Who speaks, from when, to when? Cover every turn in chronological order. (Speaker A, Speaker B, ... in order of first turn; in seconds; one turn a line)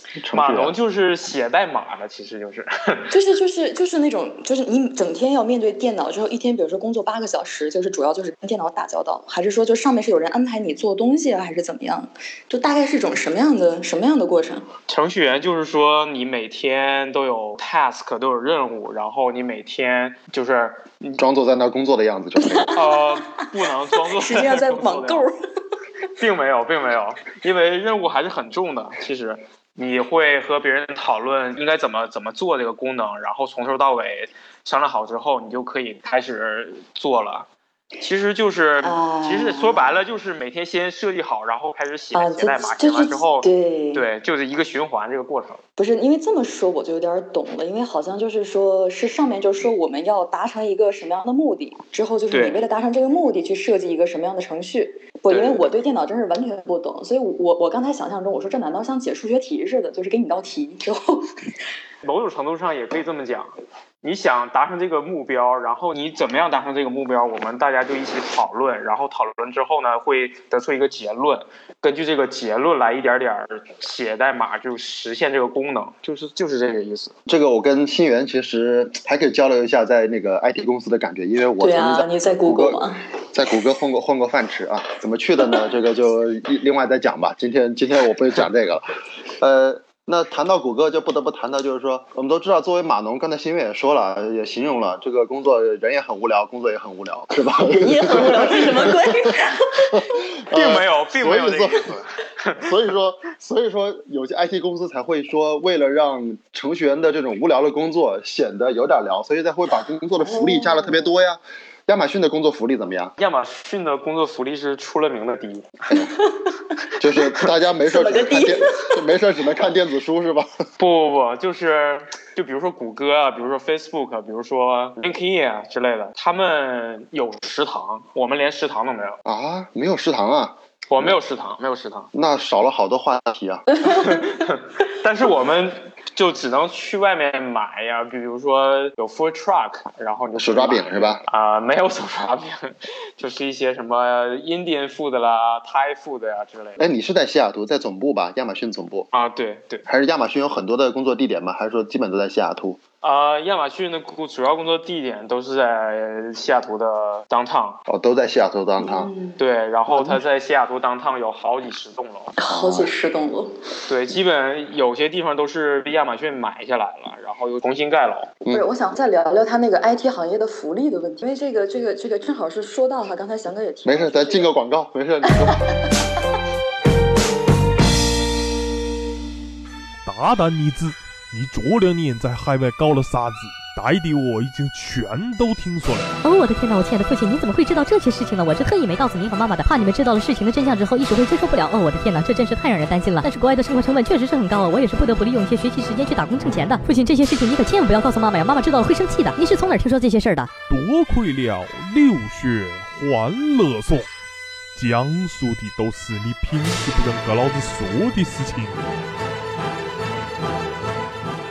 Speaker A: 0.2-0.8
Speaker B: 0.3-3.1
Speaker C: 3.1-14.7
Speaker B: 14.9-21.2
Speaker A: 21.2-22.8
Speaker C: 22.4-23.3
Speaker B: 22.7-25.3
Speaker C: 24.0-25.3
Speaker B: 26.2-37.5
Speaker B: 38.0-45.6
Speaker C: 38.8-40.0
Speaker C: 42.1-44.1
Speaker C: 45.8-61.3
Speaker B: 52.3-52.6
Speaker B: 55.3-55.7
Speaker B: 62.0-63.5
Speaker B: 64.0-77.2
Speaker A: 77.3-99.3
Speaker C: 81.6-83.0
Speaker C: 97.7-100.0
Speaker A: 99.9-102.0
Speaker B: 100.5-102.6
Speaker A: 102.6-113.1
Speaker C: 110.2-111.2
Speaker B: 113.2-115.7
Speaker A: 117.0-120.5
Speaker C: 117.8-119.0
Speaker B: 120.8-129.2
Speaker A: 129.2-131.2
Speaker B: 130.9-132.1
Speaker A: 132.1-133.7
Speaker B: 133.8-146.8
Speaker A: 140.4-141.2
Speaker A: 146.8-149.1
Speaker B: 149.1-149.8
Speaker A: 149.9-152.8
Speaker B: 153.0-157.8
Speaker A: 157.9-159.1
Speaker C: 158.8-159.4
Speaker B: 159.4-162.3
Speaker A: 159.9-160.2
Speaker C: 162.4-163.6
Speaker A: 162.5-162.9
Speaker B: 163.9-168.3
Speaker C: 168.5-174.5
Speaker A: 173.8-175.7
Speaker D: 180.1-186.2
Speaker E: 186.2-200.5
Speaker D: 200.7-204.1
Speaker D: 204.8-208.9